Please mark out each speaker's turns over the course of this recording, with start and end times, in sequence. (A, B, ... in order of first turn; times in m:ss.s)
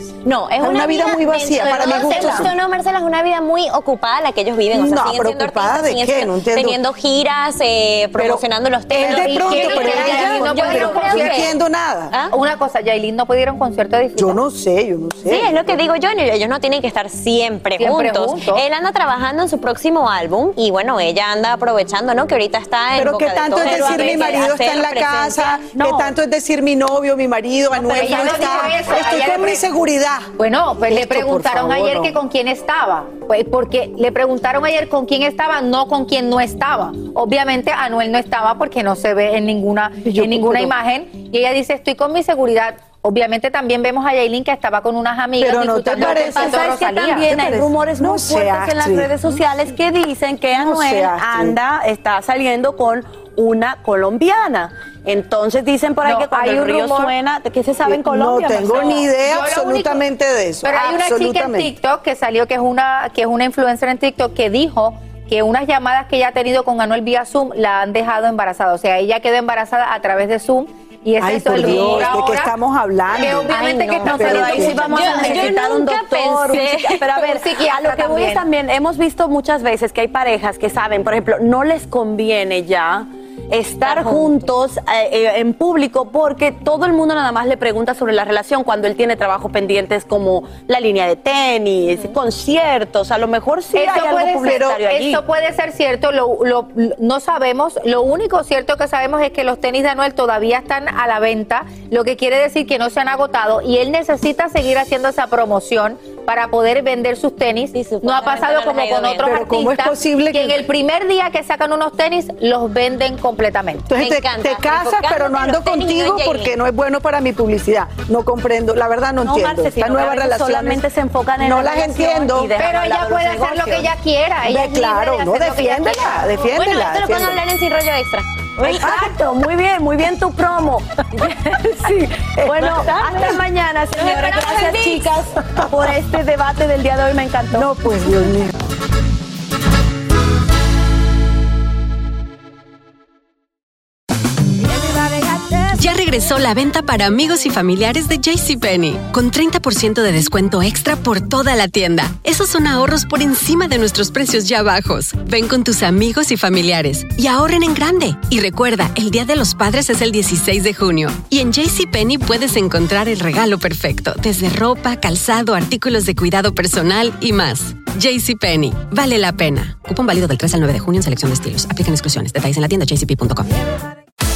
0:00.2-0:11.5 A
0:00.6-0:02.5 B
0:04.7-0:06.8 B
0:08.2-0:12.1 B
0:09.0-0:11.5 C
0:12.1-0:12.4 A
0:12.3-0:14.4 C
0:14.2-0:15.8 B
0:15.2-0:26.1 A
0:17.8-0:18.6 C
0:23.0-0:30.3 B
0:23.6-0:24.4 C
0:27.8-0:28.7 A
0:27.9-0:29.6 C
0:30.4-0:47.3 C
0:30.9-0:32.2 B
0:40.0-0:40.7 B
0:45.4-0:49.1 B
0:45.9-0:59.1 D
0:50.5-0:51.6 B
0:56.0-0:57.1 C
0:57.8-1:01.7 B
0:58.7-1:00.0 C
1:00.6-1:12.5 C
1:11.2-1:14.9 B
1:11.7-1:12.0 A
1:13.1-1:15.6 C
1:13.5-1:17.0 A
1:14.1-1:35.2 D
1:17.0-1:18.4 C
1:23.8-1:24.5 A
1:33.7-1:53.9 C
1:34.4-1:34.8 B
1:47.7-1:49.4 A
1:49.2-1:50.6 B
1:53.9-2:00.8 B
1:53.9-1:56.5 A
1:59.2-2:03.8 D
2:01.4-2:03.8 B
2:02.6-2:06.2 C
2:04.4-2:07.4 B
2:06.5-2:08.8 A
2:08.6-2:17.7 D
2:08.8-2:09.1 B
2:12.4-2:13.4 B
2:12.8-2:13.4 A
2:13.9-2:15.2 A
2:17.5-2:18.5 B
2:25.7-2:53.5 E